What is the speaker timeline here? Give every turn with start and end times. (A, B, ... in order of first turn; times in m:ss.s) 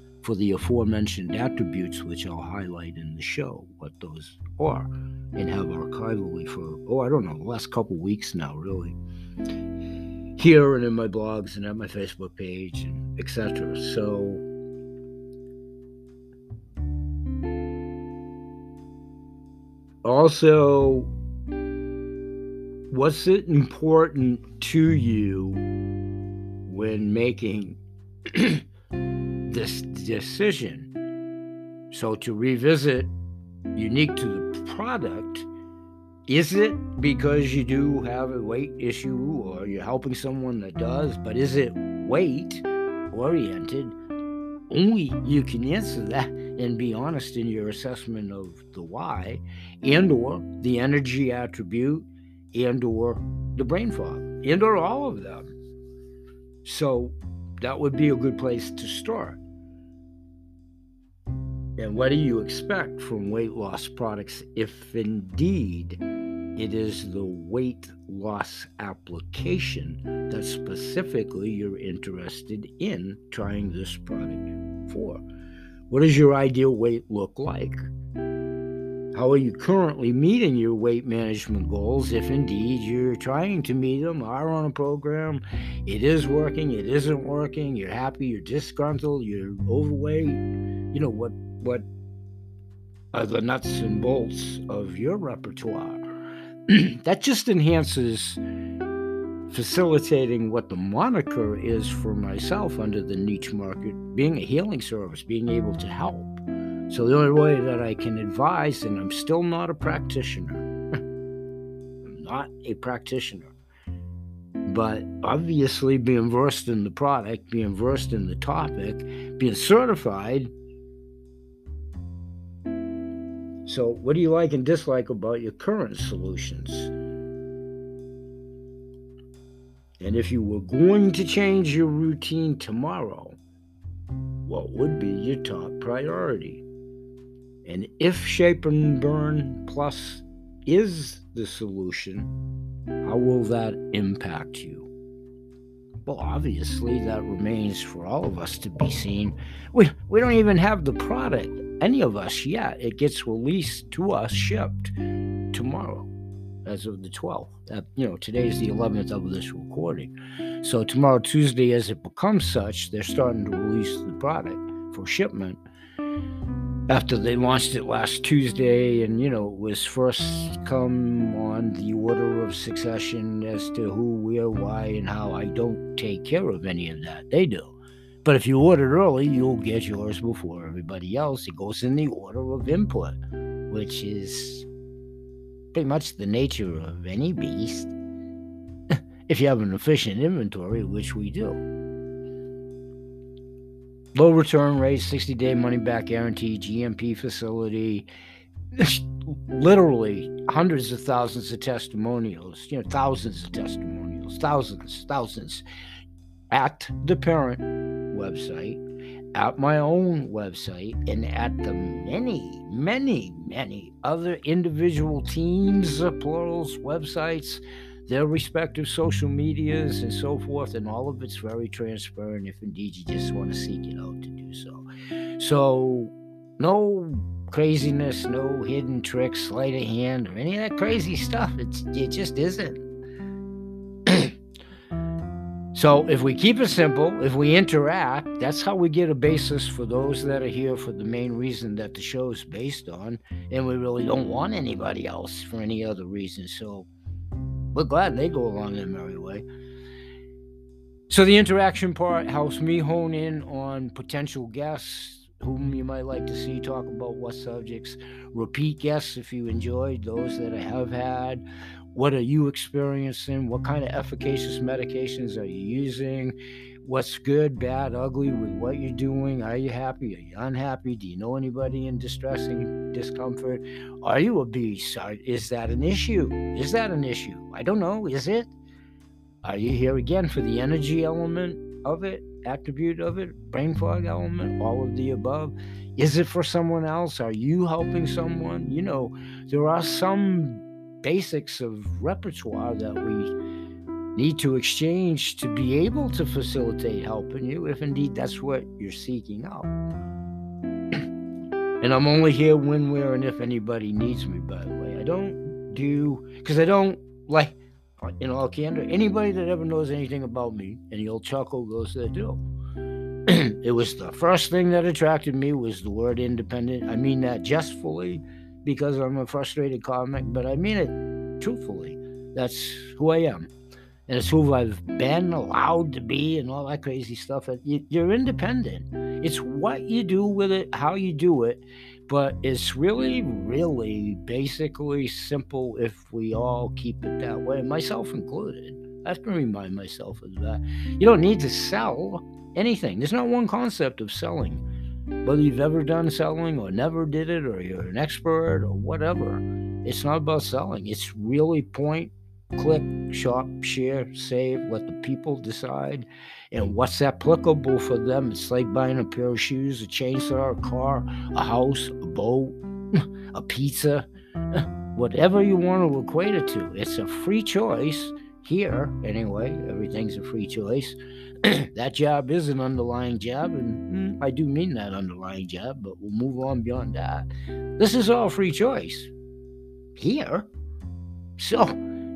0:00.2-0:09.0 A
0:10.4-0:14.4 A
0:20.0-0:21.1 A
0:22.9-0:25.6 A
0:26.6-0:28.6 A
0:29.4-0:30.9 A
0:31.9-0:33.1 A
0:33.7-0:35.5 A
0:36.3-0:44.0 A
0:44.7-0:55.5 A
0:56.6-0:59.4 A
1:01.8-1:06.0 A
1:06.6-1:15.2 A
1:15.9-1:17.9 A
1:19.1-1:31.8 A
1:33.1-1:36.0 A
1:36.7-1:38.4 A
1:39.5-1:50.7 A
1:52.0-1:53.5 A
1:54.6-2:00.5 A
2:03.6-2:06.9 A
2:10.0-2:13.4 A
2:14.4-2:16.6 A
2:17.6-2:22.3 A
2:23.0-2:24.9 A
2:26.0-2:34.9 A
2:35.5-2:36.1 A
2:36.6-2:45.6 A
2:46.9-3:03.2 A
3:03.7-3:04.6 A
3:05.7-3:07.9 A
3:08.9-3:11.6 A
3:14.1-3:18.1 A
3:18.7-3:25.6 A
3:26.5-3:28.8 A
3:29.3-3:44.8 A
3:45.4-3:52.8 A
3:54.0-3:54.3 A
3:55.7-4:06.9 A
4:07.7-4:09.4 A
4:11.1-4:38.5 A
4:39.4-4:53.3 A
4:54.2-4:59.7 A
5:01.8-5:12.4 A
5:13.3-5:23.5 A
5:24.1-5:44.6 A
5:45.2-6:19.1 A
6:20.0-6:20.5 A
6:21.4-6:21.8 A